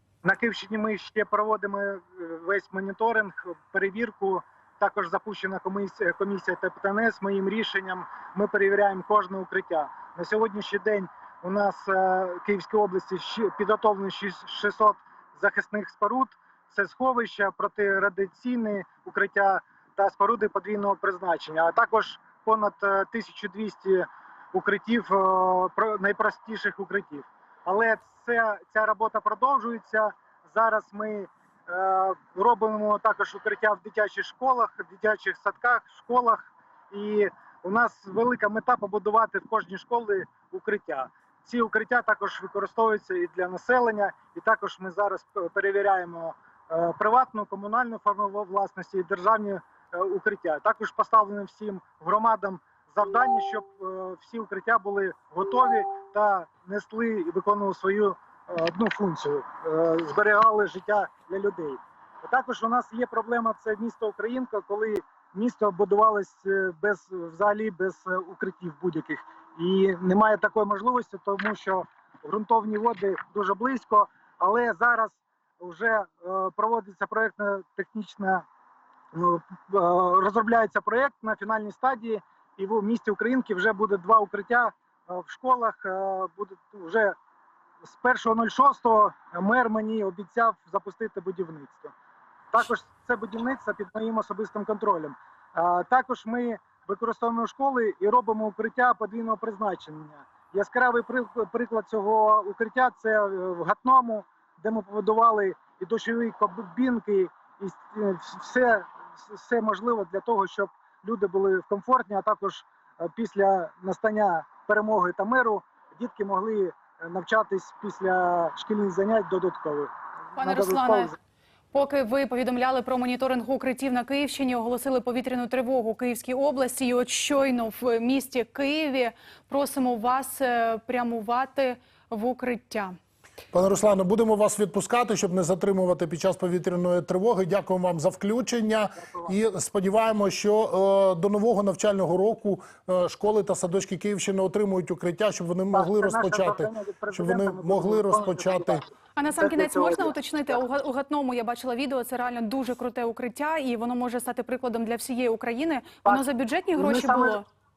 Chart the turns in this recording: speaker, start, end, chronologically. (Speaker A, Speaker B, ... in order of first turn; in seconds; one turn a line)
Speaker A: 0.2-78.4
Speaker A: 79.1-87.2
Speaker A: 87.8-91.9
Speaker A: 92.5-119.9
Speaker B: 120.3-121.1
Speaker A: 120.4-121.1
Speaker B: 121.7-132.9
Speaker C: 133.5-148.8
Speaker A: 145.7-148.8
Speaker B: 149.2-157.4
Speaker A: 149.4-150.6
Speaker A: 156.8-157.4